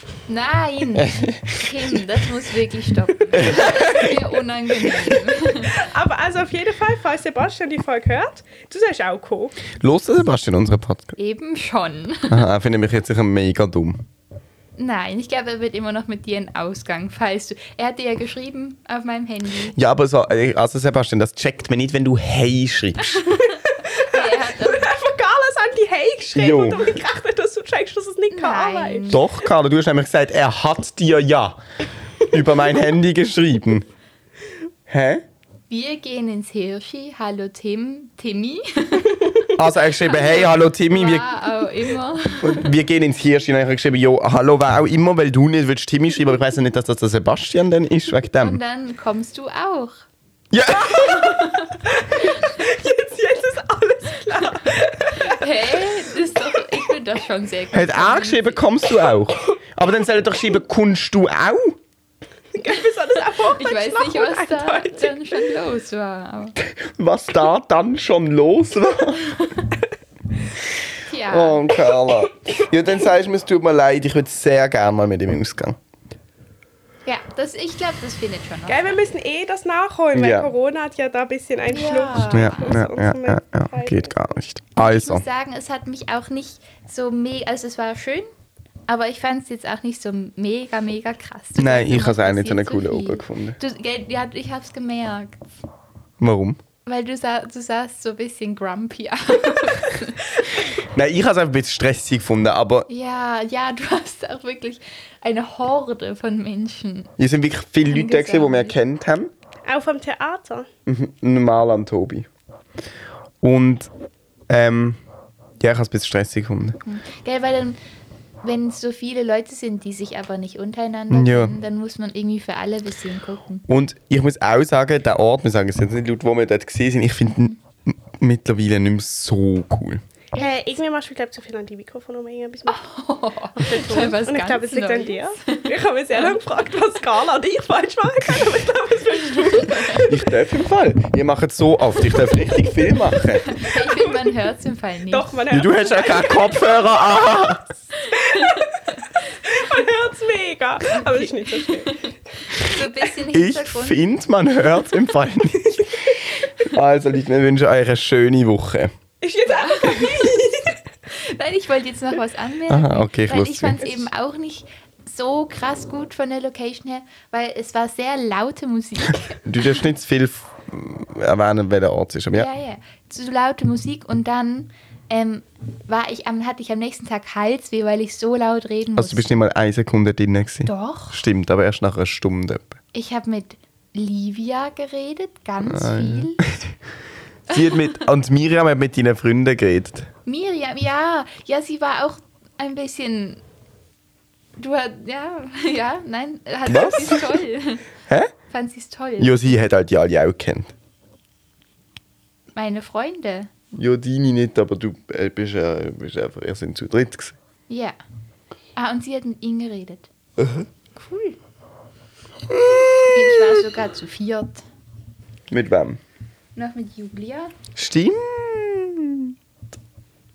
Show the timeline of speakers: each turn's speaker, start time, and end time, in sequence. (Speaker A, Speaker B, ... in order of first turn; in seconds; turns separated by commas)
Speaker A: 0.3-5.8, Speaker B: 1.0-1.7, Speaker B: 3.3-4.1, Speaker C: 5.6-9.6, Speaker B: 9.8-11.2, Speaker A: 11.2-12.4, Speaker B: 12.3-14.1, Speaker A: 14.8-19.8, Speaker B: 19.8-23.3, Speaker A: 23.1-24.9, Speaker C: 23.4-29.2, Speaker B: 26.4-26.9, Speaker A: 28.3-29.2, Speaker B: 29.1-31.6, Speaker B: 32.3-33.9, Speaker B: 34.9-35.2, Speaker A: 35.7-42.7, Speaker B: 39.6-41.5, Speaker B: 42.4-48.6, Speaker A: 48.4-50.1, Speaker B: 50.5-51.5, Speaker A: 50.9-52.5, Speaker C: 51.8-55.9, Speaker A: 54.7-58.6, Speaker B: 57.7-61.8, Speaker C: 62.5-65.4, Speaker A: 62.7-66.6, Speaker B: 66.8-69.5, Speaker A: 71.1-71.7, Speaker B: 71.3-75.8, Speaker A: 77.1-79.0, Speaker C: 78.7-84.1, Speaker B: 80.1-80.5, Speaker A: 81.7-82.8, Speaker B: 82.3-85.2, Speaker A: 84.8-88.3, Speaker A: 88.9-95.5, Speaker B: 91.6-93.6, Speaker B: 96.2-96.6, Speaker A: 96.9-100.7, Speaker B: 100.8-102.9, Speaker A: 102.9-107.2, Speaker B: 107.2-109.3, Speaker A: 107.9-108.8, Speaker C: 109.7-110.7, Speaker B: 110.9-112.3, Speaker B: 113.4-113.9, Speaker B: 114.5-115.0, Speaker B: 115.6-116.8, Speaker A: 116.9-117.8, Speaker A: 118.4-123.7, Speaker B: 121.1-121.6, Speaker B: 123.7-130.0, Speaker A: 130.4-130.6, Speaker C: 130.4-132.8, Speaker A: 132.7-136.4, Speaker C: 133.6-140.3, Speaker A: 139.4-139.9, Speaker B: 139.9-143.5, Speaker A: 143.5-145.4, Speaker C: 143.7-144.3, Speaker C: 145.1-147.2, Speaker B: 145.5-147.6, Speaker A: 148.0-149.2, Speaker C: 148.1-152.1, Speaker A: 150.9-154.0, Speaker B: 153.3-158.9, Speaker C: 155.6-155.9, Speaker C: 159.2-160.8, Speaker A: 159.5-169.7, Speaker B: 162.7-164.1, Speaker B: 169.4-172.5, Speaker A: 172.3-179.3, Speaker B: 179.0-182.8, Speaker A: 180.7-181.2, Speaker A: 182.9-186.4, Speaker B: 185.7-186.7, Speaker B: 187.5-190.1, Speaker A: 187.5-187.8, Speaker A: 190.3-193.4, Speaker A: 194.6-197.8, Speaker B: 196.7-197.4, Speaker A: 198.5-199.4, Speaker B: 199.2-200.7, Speaker A: 202.6-203.5, Speaker B: 203.7-207.4, Speaker A: 207.7-208.0, Speaker A: 208.8-210.1, Speaker B: 210.4-210.7, Speaker A: 211.0-211.4, Speaker B: 212.5-213.7, Speaker A: 213.1-214.7, Speaker B: 215.5-216.0, Speaker A: 216.6-217.6, Speaker B: 217.8-219.3